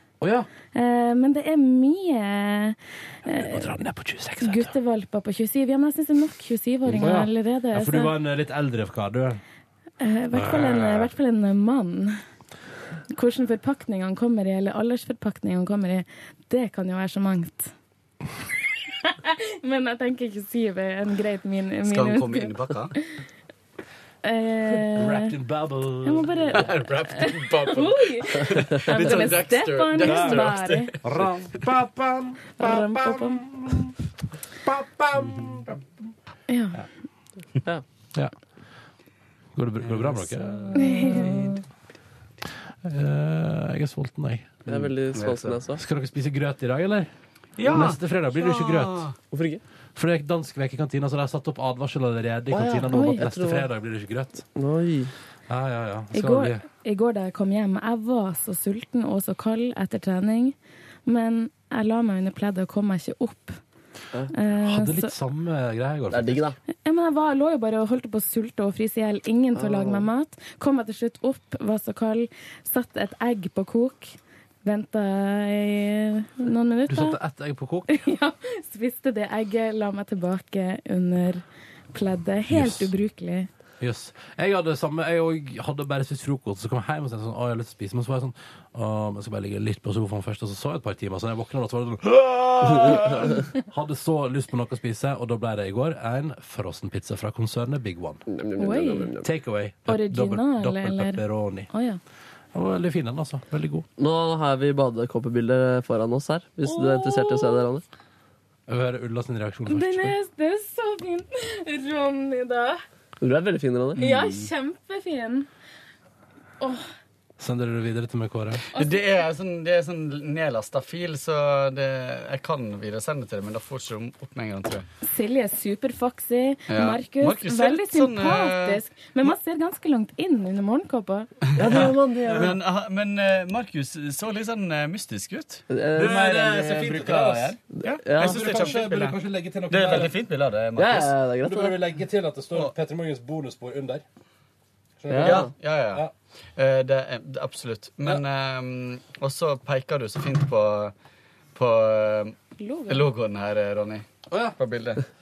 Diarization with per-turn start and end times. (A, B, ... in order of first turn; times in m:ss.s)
0:00.2-0:00.5 A
0:00.7-0:03.8 B
0:03.4-0:04.7 A
0:04.4-0:08.2 B
0:06.9-0:09.4 A
0:10.0-0:12.2 B
0:10.3-0:11.1 A
0:13.1-0:17.7 B
0:19.0-0:23.2 B
0:21.8-0:22.9 C
0:24.2-0:25.4 B
0:25.0-0:26.6 A
0:26.0-0:30.9 B
0:26.5-0:31.5 C
0:30.0-0:30.4 A
0:31.0-0:33.9 A
0:32.6-0:33.7 B
0:34.6-0:35.8 A
0:36.5-0:36.8 B
0:39.5-0:41.5 A
0:39.8-0:40.4 C
0:40.7-0:41.6 B
0:42.8-0:44.7 A
0:44.7-0:45.8 D
0:44.7-0:45.6 C
0:45.8-0:49.0 A
0:47.6-0:49.1 C
0:49.3-0:49.6 D
0:50.0-0:54.4 A
0:52.5-0:53.7 D
0:52.9-0:53.3 B
0:54.5-0:55.1 D
0:55.5-0:56.6 A
0:56.1-1:00.6 B
1:01.1-1:03.6 B
1:04.3-1:05.1 B
1:04.6-1:06.5 A
1:06.1-1:06.6 D
1:06.8-1:17.2 B
1:09.5-1:10.0 D
1:16.9-1:17.9 A
1:17.9-1:23.5 B
1:22.5-1:22.9 A
1:23.8-1:38.2 A
1:32.7-1:33.4 D
1:38.3-1:39.3 D
1:38.6-1:39.2 B
1:39.2-1:41.7 A
1:39.8-1:42.0 B
1:42.5-1:43.8 A
1:44.0-1:47.8 D
1:46.6-1:47.6 B
1:48.7-1:50.1 A
1:49.7-1:52.8 B
1:53.2-1:54.0 D
1:54.0-1:55.5 B
1:54.0-1:54.5 C
1:56.6-1:56.8 B
1:57.4-1:58.6 A
1:58.7-1:59.3 B
1:58.7-2:04.8 C
2:05.0-2:11.3 B
2:06.7-2:08.8 C
2:11.5-2:19.2 C
2:11.6-2:12.6 D
2:15.7-2:16.9 D
2:16.0-2:17.6 A
2:17.7-2:18.7 D
2:18.2-2:20.2 A
2:19.7-2:21.2 C
2:20.8-2:21.8 D
2:21.4-2:24.0 A
2:25.0-2:26.1 A
2:25.1-2:25.5 D
2:25.2-2:26.0 C
2:26.6-2:30.9 C
2:31.5-2:35.0 C
2:32.6-2:33.1 B
2:34.3-2:34.6 A